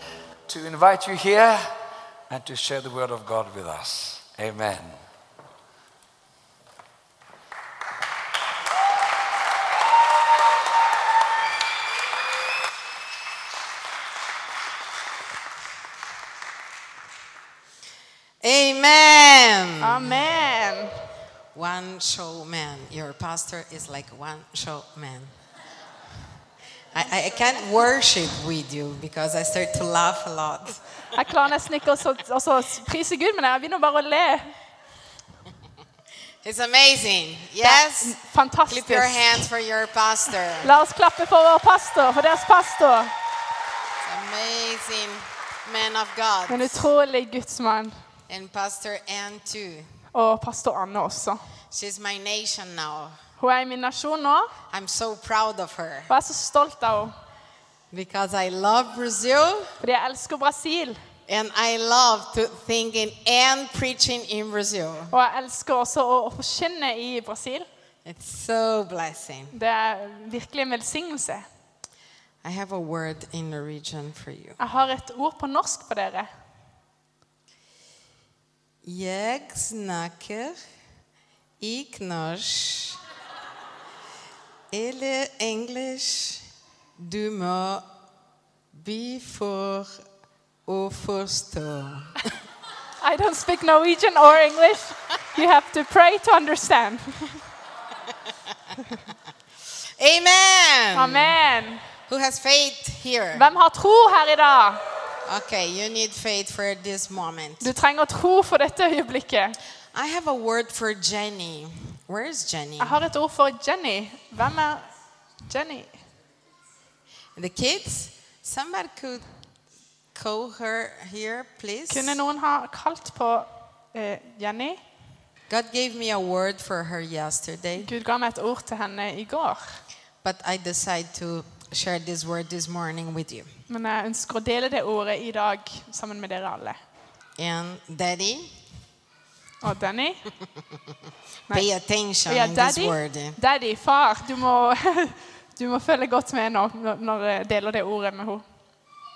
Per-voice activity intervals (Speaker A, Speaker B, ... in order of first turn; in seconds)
Speaker A: 0.5-1.7, 2.3-5.0
Speaker B: 18.4-20.1, 21.5-25.3, 26.9-30.8, 36.4-40.7, 44.0-46.7, 48.3-49.9, 51.7-53.2, 54.7-56.1, 57.9-59.7, 61.3-65.1, 68.0-69.5, 72.4-74.6, 78.8-80.6, 81.6-83.0, 84.7-86.4, 87.0-87.8, 88.7-90.0, 90.7-92.3, 100.0-101.3, 102.1-103.5, 105.2-107.7, 109.9-113.0, 117.3-119.3, 120.1-122.2, 125.5-127.9, 130.2-133.5, 137.4-138.5, 141.5-143.4
Speaker C: 19.8-21.1, 31.1-34.5, 37.6-39.5, 40.6-43.1, 46.5-48.0, 50.1-51.4, 53.4-54.5, 56.1-57.1, 59.8-61.0, 65.1-67.7, 69.5-71.4, 74.6-76.3, 93.0-97.3, 100.9-101.8, 103.3-104.8, 107.6-109.6, 112.8-114.9, 115.5-116.0, 121.9-124.8, 127.8-129.8, 133.7-136.8, 139.6-140.2, 142.2-148.4